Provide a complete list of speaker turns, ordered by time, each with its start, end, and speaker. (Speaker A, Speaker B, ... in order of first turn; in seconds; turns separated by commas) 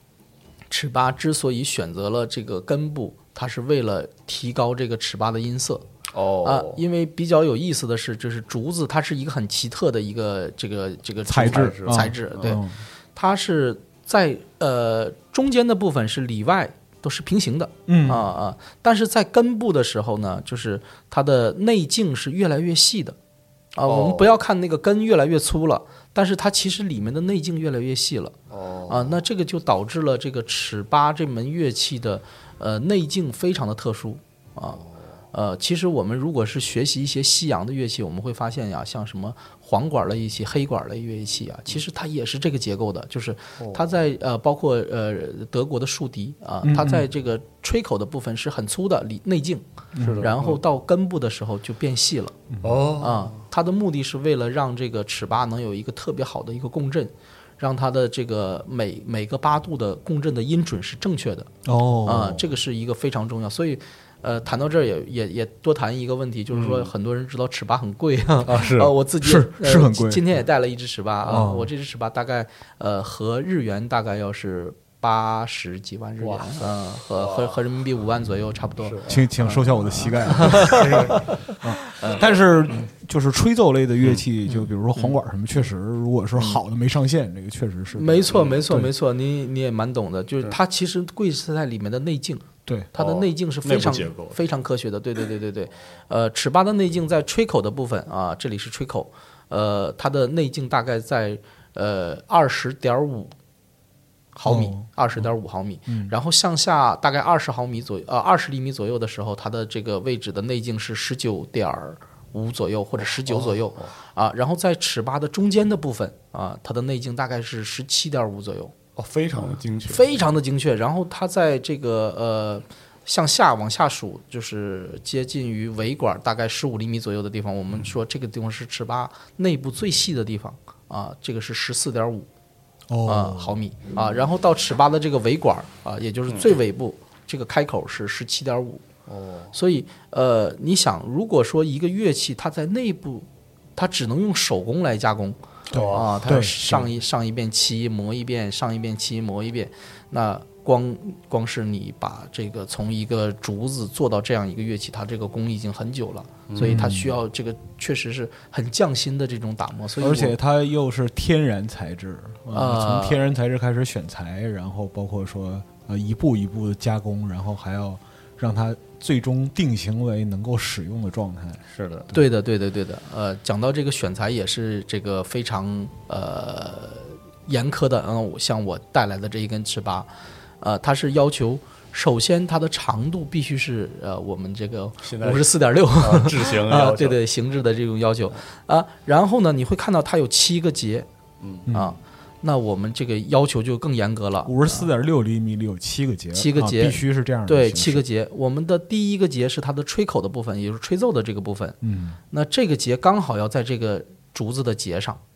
Speaker A: 0.7-5.9, Speaker B: 6.1-6.8, Speaker A: 6.4-12.6, Speaker C: 11.3-12.8, Speaker B: 11.4-12.6, Speaker A: 13.2-23.2, Speaker C: 17.9-18.3, Speaker A: 23.8-28.4, Speaker B: 23.9-24.3, Speaker B: 28.5-29.2, Speaker A: 28.9-34.8, Speaker A: 35.3-49.6, Speaker B: 43.6-43.9, Speaker C: 46.6-47.1, Speaker C: 49.9-50.3, Speaker B: 50.0-50.6, Speaker A: 50.2-52.4, Speaker C: 52.5-52.8, Speaker B: 52.6-53.4, Speaker A: 53.0-61.5, Speaker C: 61.6-62.4, Speaker A: 62.0-81.4, Speaker B: 66.5-66.9, Speaker B: 68.5-68.9, Speaker C: 69.2-70.2, Speaker C: 71.3-71.7, Speaker B: 76.2-77.6, Speaker B: 78.8-79.3, Speaker C: 79.1-88.9, Speaker B: 80.4-81.2, Speaker A: 82.0-82.2, Speaker A: 87.9-103.3, Speaker B: 88.3-88.6, Speaker B: 93.0-94.4, Speaker A: 104.3-118.8, Speaker C: 104.5-104.9, Speaker B: 113.3-113.9, Speaker B: 119.0-120.1, Speaker A: 119.9-132.3, Speaker C: 132.9-133.6, Speaker A: 133.1-138.8, Speaker B: 139.1-139.5, Speaker A: 139.5-160.3, Speaker B: 145.7-146.3, Speaker C: 145.7-146.9, Speaker B: 156.5-156.8, Speaker C: 156.6-157.1, Speaker C: 160.0-171.6, Speaker A: 162.5-163.2, Speaker B: 171.7-172.1, Speaker A: 172.1-180.1, Speaker A: 180.6-191.1, Speaker B: 185.0-187.2, Speaker B: 191.4-191.7, Speaker C: 191.7-191.9, Speaker A: 191.7-194.9, Speaker C: 194.4-198.1, Speaker A: 196.3-201.8, Speaker C: 201.8-202.2, Speaker A: 202.3-205.2